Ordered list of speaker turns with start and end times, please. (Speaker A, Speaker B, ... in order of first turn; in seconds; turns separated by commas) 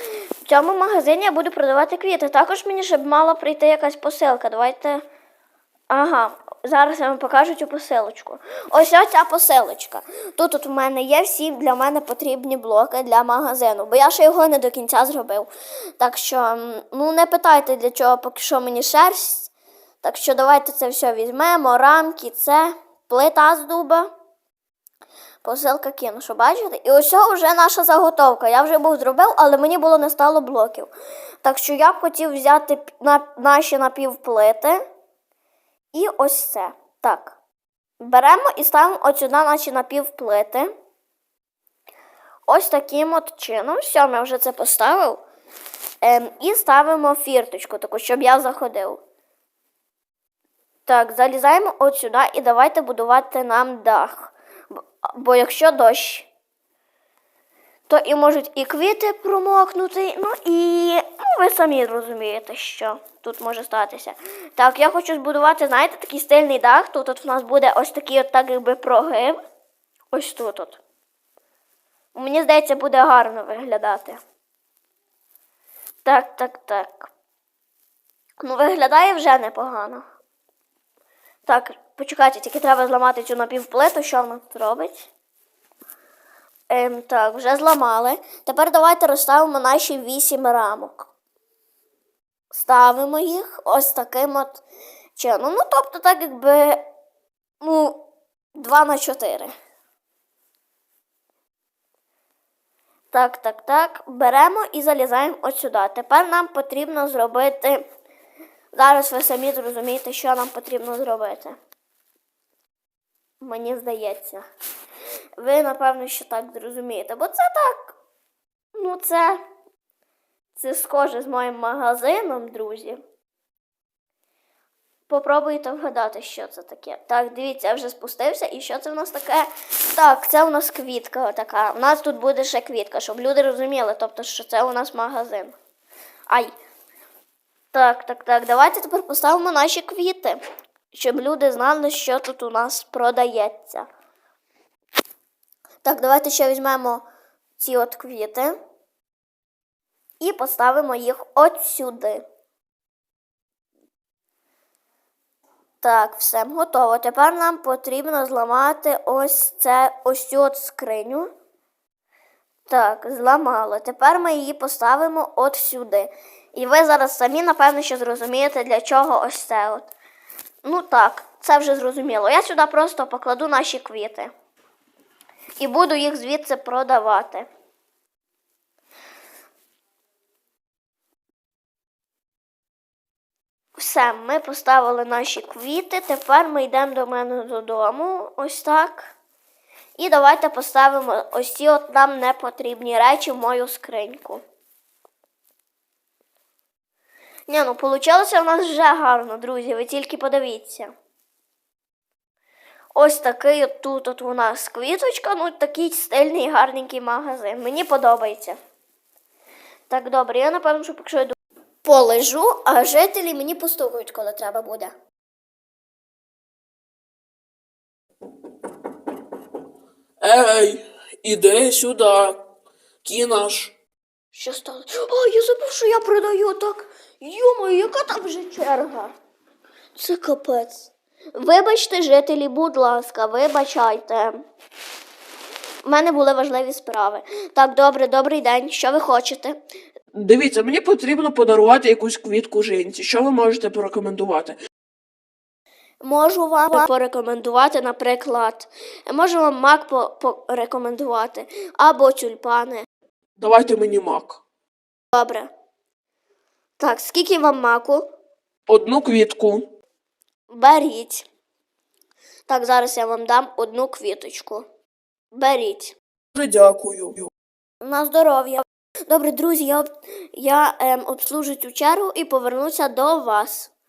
Speaker A: 0.5-5.0, Speaker A: 5.9-15.5, Speaker A: 16.0-19.5, Speaker A: 20.0-24.1, Speaker A: 25.4-30.9, Speaker A: 31.4-34.8, Speaker A: 35.9-37.4, Speaker A: 38.0-40.7, Speaker A: 42.5-45.2, Speaker A: 46.0-49.0, Speaker A: 50.9-56.3, Speaker A: 57.9-69.4, Speaker A: 70.1-70.8, Speaker A: 72.1-74.2, Speaker A: 76.0-77.1, Speaker A: 78.4-80.0, Speaker A: 81.5-85.1, Speaker A: 86.7-91.1, Speaker A: 92.5-94.6, Speaker A: 95.2-96.9, Speaker A: 97.6-98.0, Speaker A: 98.6-99.5, Speaker A: 103.1-107.9, Speaker A: 108.7-111.6, Speaker A: 113.4-114.5, Speaker A: 115.4-118.0, Speaker A: 118.8-119.4, Speaker A: 120.6-123.0, Speaker A: 125.1-135.6, Speaker A: 137.7-140.4, Speaker A: 140.9-143.9, Speaker A: 145.8-147.0, Speaker A: 147.6-148.6, Speaker A: 150.2-152.2, Speaker A: 155.8-161.3, Speaker A: 162.7-169.9, Speaker A: 170.6-174.3, Speaker A: 175.6-177.5, Speaker A: 183.8-189.1, Speaker A: 190.0-194.4, Speaker A: 197.5-200.9, Speaker A: 202.9-208.6, Speaker A: 209.9-214.9, Speaker B: 220.2-222.4, Speaker B: 223.1-223.8, Speaker A: 224.3-229.1, Speaker A: 229.9-234.4, Speaker A: 235.8-239.6, Speaker B: 240.1-244.6, Speaker A: 246.0-252.9, Speaker B: 253.4-254.4, Speaker A: 255.1-255.5, Speaker A: 256.8-258.1, Speaker B: 258.7-259.7, Speaker A: 260.5-261.3, Speaker A: 262.5-264.7, Speaker A: 265.3-266.0, Speaker B: 266.4-267.3, Speaker A: 267.8-273.7